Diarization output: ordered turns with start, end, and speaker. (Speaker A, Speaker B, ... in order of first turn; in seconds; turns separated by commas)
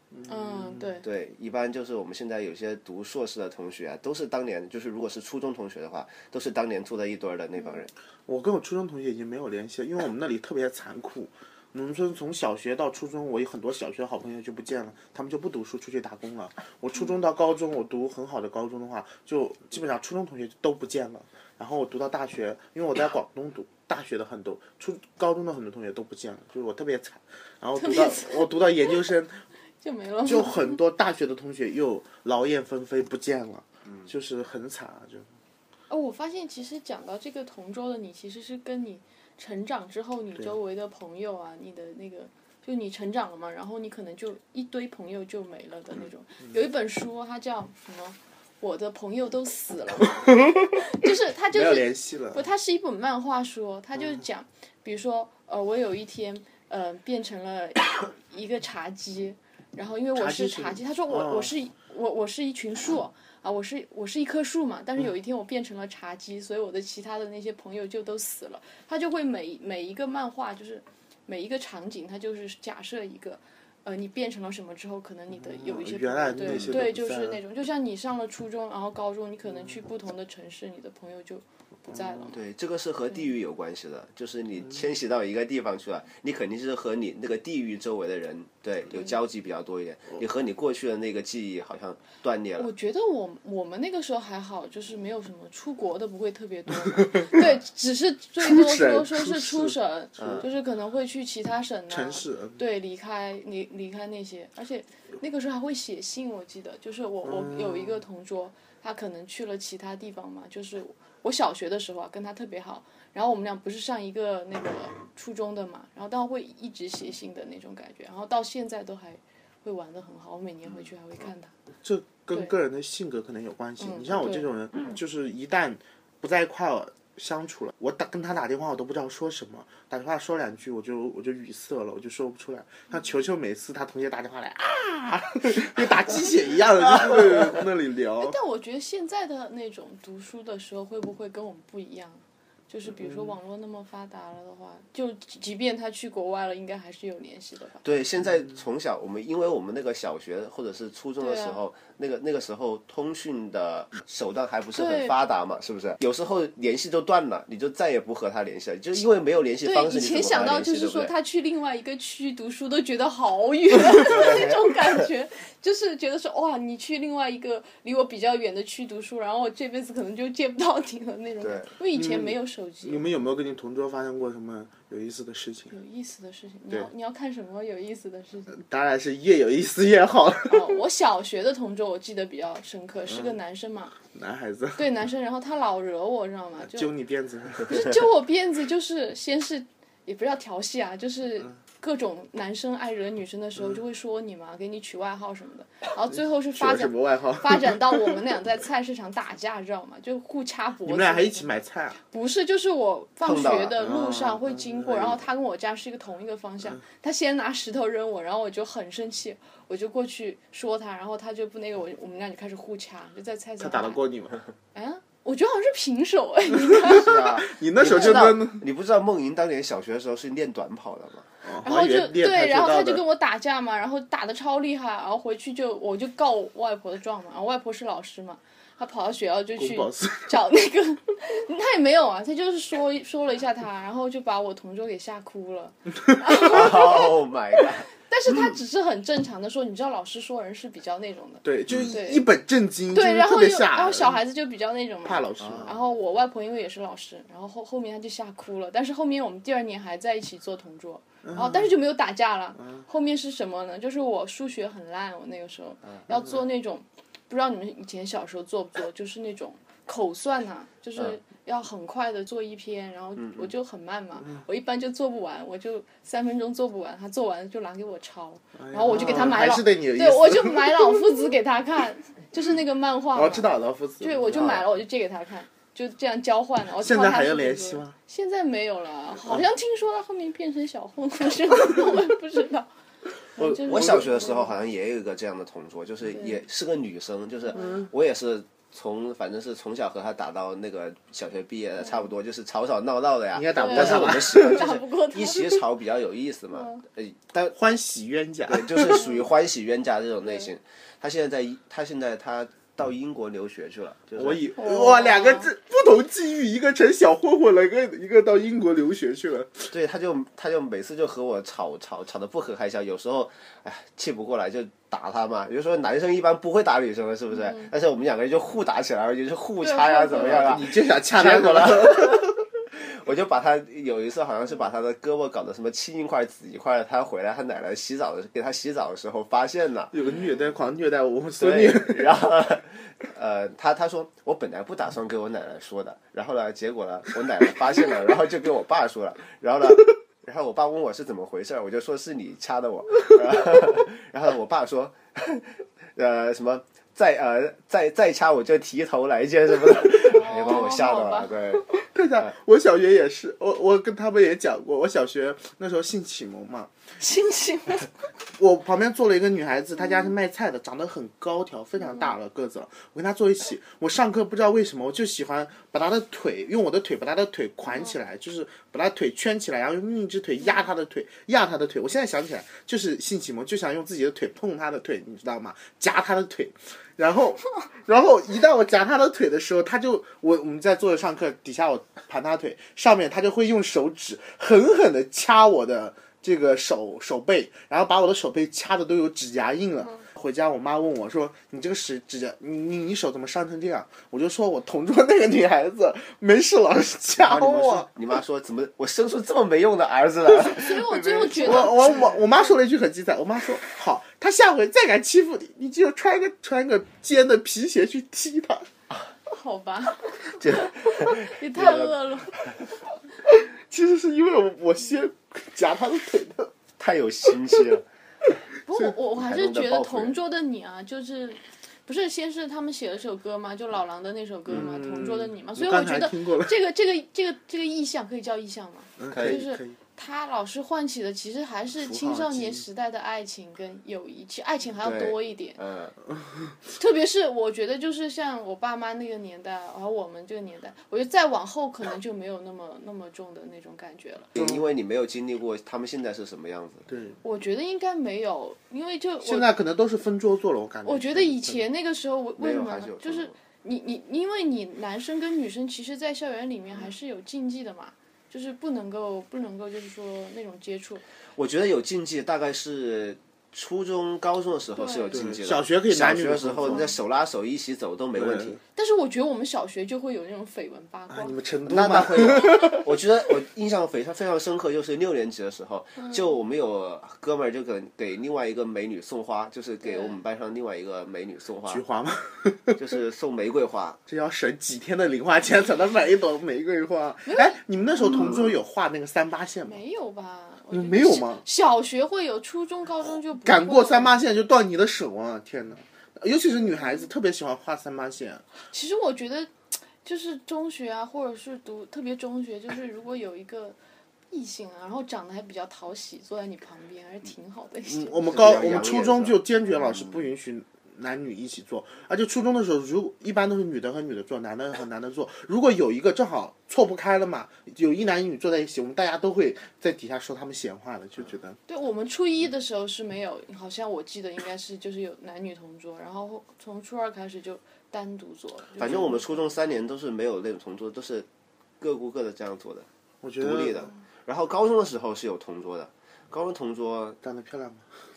Speaker A: 0.1-0.9, Speaker B: 0.3-1.1, Speaker C: 1.0-7.9, Speaker A: 8.3-29.4, Speaker B: 27.8-28.9, Speaker B: 29.8-30.8, Speaker A: 30.2-35.3, Speaker B: 35.9-82.4, Speaker A: 50.2-50.8, Speaker A: 51.5-52.4, Speaker A: 60.1-61.5, Speaker A: 75.3-77.4, Speaker C: 76.4-76.8, Speaker A: 81.9-82.2, Speaker C: 82.3-92.7, Speaker B: 92.6-121.5, Speaker A: 97.0-97.4, Speaker A: 98.4-100.5, Speaker C: 100.2-100.5, Speaker A: 101.9-102.6, Speaker A: 107.2-108.0, Speaker A: 121.8-138.4, Speaker B: 123.8-124.5, Speaker B: 138.2-147.8, Speaker A: 143.0-143.3, Speaker C: 147.8-161.1, Speaker B: 151.2-151.6, Speaker B: 154.7-155.2, Speaker B: 159.6-173.0, Speaker C: 163.9-165.1, Speaker C: 171.4-171.7, Speaker A: 171.9-175.7, Speaker B: 175.7-178.6, Speaker A: 178.5-180.8, Speaker B: 180.5-184.0, Speaker A: 183.1-183.3, Speaker A: 184.0-184.8, Speaker B: 184.8-186.9, Speaker A: 186.6-187.9, Speaker B: 187.6-201.5, Speaker A: 196.1-198.2, Speaker A: 200.8-202.0, Speaker B: 202.1-214.0, Speaker C: 203.2-203.8, Speaker A: 203.8-205.2, Speaker A: 213.6-214.4, Speaker B: 214.7-217.3, Speaker A: 216.7-218.6, Speaker C: 216.9-221.3, Speaker B: 217.8-218.3, Speaker A: 221.4-223.0, Speaker B: 221.6-242.2, Speaker A: 229.6-230.3, Speaker C: 236.3-237.9, Speaker A: 241.4-244.2, Speaker C: 241.7-241.9, Speaker B: 242.9-282.7, Speaker A: 245.0-245.7, Speaker C: 245.4-245.7, Speaker A: 251.2-251.8, Speaker C: 263.2-263.5, Speaker A: 268.6-271.1, Speaker A: 273.1-274.6, Speaker C: 274.3-274.6, Speaker A: 276.8-277.9, Speaker B: 283.4-284.6, Speaker C: 283.4-297.6, Speaker A: 283.4-284.0, Speaker B: 286.1-286.4, Speaker B: 287.5-287.8, Speaker A: 287.6-287.8, Speaker A: 293.3-294.7, Speaker B: 293.5-295.6, Speaker B: 296.5-296.8, Speaker A: 297.5-299.0, Speaker C: 298.5-304.4, Speaker B: 298.9-299.2, Speaker A: 304.2-309.7, Speaker B: 304.5-305.5, Speaker C: 309.7-329.9, Speaker B: 317.4-317.7, Speaker B: 319.6-320.6, Speaker A: 320.1-322.3, Speaker A: 329.9-332.3, Speaker B: 330.1-330.4, Speaker C: 331.4-352.3, Speaker B: 350.0-351.3, Speaker A: 351.7-356.7, Speaker B: 357.0-357.9, Speaker A: 358.4-397.9, Speaker B: 361.9-362.1, Speaker C: 397.2-401.9, Speaker B: 400.4-402.5, Speaker A: 401.4-408.7, Speaker B: 409.3-412.5, Speaker C: 410.4-411.9, Speaker A: 413.2-416.5, Speaker C: 416.8-417.8, Speaker B: 418.6-435.6, Speaker C: 419.1-420.2, Speaker A: 424.5-426.5, Speaker A: 429.0-429.8, Speaker C: 429.1-429.4, Speaker A: 431.8-432.6, Speaker C: 434.8-435.9, Speaker A: 436.1-436.5, Speaker B: 436.7-444.3, Speaker A: 444.3-444.6, Speaker C: 444.3-446.9, Speaker A: 446.9-447.2, Speaker B: 447.2-449.5, Speaker A: 449.2-451.6, Speaker B: 450.8-461.0, Speaker C: 452.4-453.3, Speaker C: 461.4-468.6, Speaker B: 464.7-465.2, Speaker A: 465.1-466.9, Speaker B: 466.7-466.9, Speaker A: 468.1-468.6, Speaker B: 468.7-471.3, Speaker A: 471.1-472.9, Speaker C: 471.7-481.8, Speaker B: 476.0-476.2, Speaker B: 479.8-480.2, Speaker A: 481.7-482.8, Speaker C: 482.7-484.0, Speaker A: 484.1-489.8, Speaker B: 487.2-488.2, Speaker B: 489.6-494.2, Speaker A: 490.7-491.4, Speaker A: 493.4-498.4, Speaker B: 498.7-499.5, Speaker B: 500.0-503.8, Speaker B: 504.3-508.2, Speaker A: 507.9-521.6, Speaker C: 508.2-510.2, Speaker B: 521.7-529.6, Speaker C: 528.8-531.2, Speaker C: 531.8-532.9, Speaker A: 533.2-533.9, Speaker C: 533.4-537.2, Speaker A: 537.2-537.9